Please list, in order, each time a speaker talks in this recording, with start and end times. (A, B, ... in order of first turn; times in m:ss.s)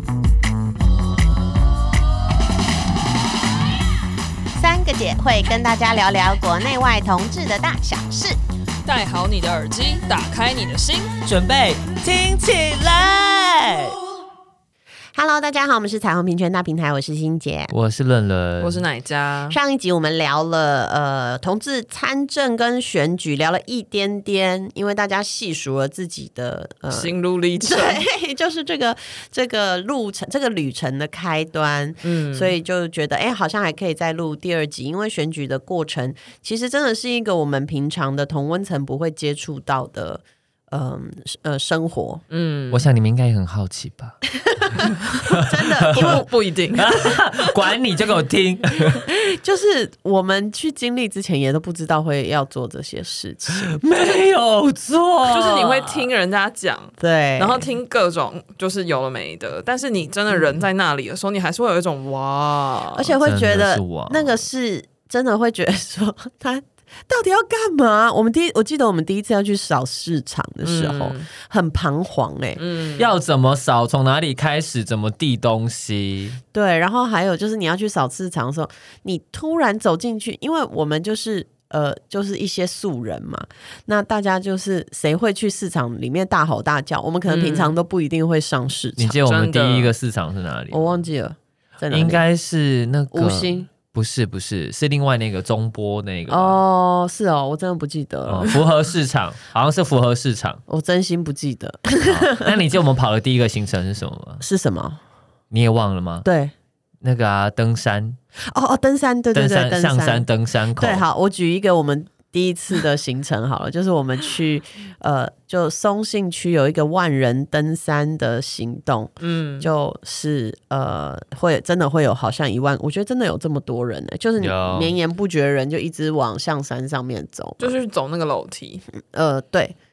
0:04.6-0:08.4 A
0:08.8-0:11.1 B
0:11.2-0:14.0 C
0:11.5-0:12.5 D
0:15.2-0:17.7 A
0:17.7-0:18.8 D
0:18.6-0:19.6 B
0:19.5-0:42.2 A
0:26.9-0:28.0 B
0:32.0-0:32.5 B
0:42.3-0:42.9 B
0:42.7-0:44.2 D
0:44.8-0:46.2 D
0:45.3-0:46.2 A
0:45.9-0:47.5 B
0:46.8-0:49.0 D
0:48.9-0:54.2 A
0:53.6-0:56.1 D
0:55.3-1:03.1 B
0:57.0-0:57.7 A
1:03.0-1:12.6 A
1:03.2-1:04.4 D
1:10.6-1:11.3 B
1:12.6-1:13.1 B
1:13.0-1:16.4 D
1:16.5-1:29.2 A
1:27.3-1:27.8 B
1:29.0-1:31.1 D
1:29.2-1:29.9 B
1:30.7-1:32.2 A
1:31.9-1:36.6 D
1:33.1-1:33.7 A
1:36.3-1:38.5 A
1:38.3-1:40.6 D
1:40.7-1:42.6 A
1:42.0-1:44.4 D
1:44.4-1:45.0 A
1:45.5-1:46.3 D
1:46.2-1:46.5 A
1:47.0-1:48.2 D
1:48.5-1:50.3 A
1:49.3-1:51.0 D
1:50.8-2:07.8 A
1:59.2-1:59.7 B
2:04.4-2:05.0 D
2:07.6-2:08.8 B
2:09.1-2:09.8 A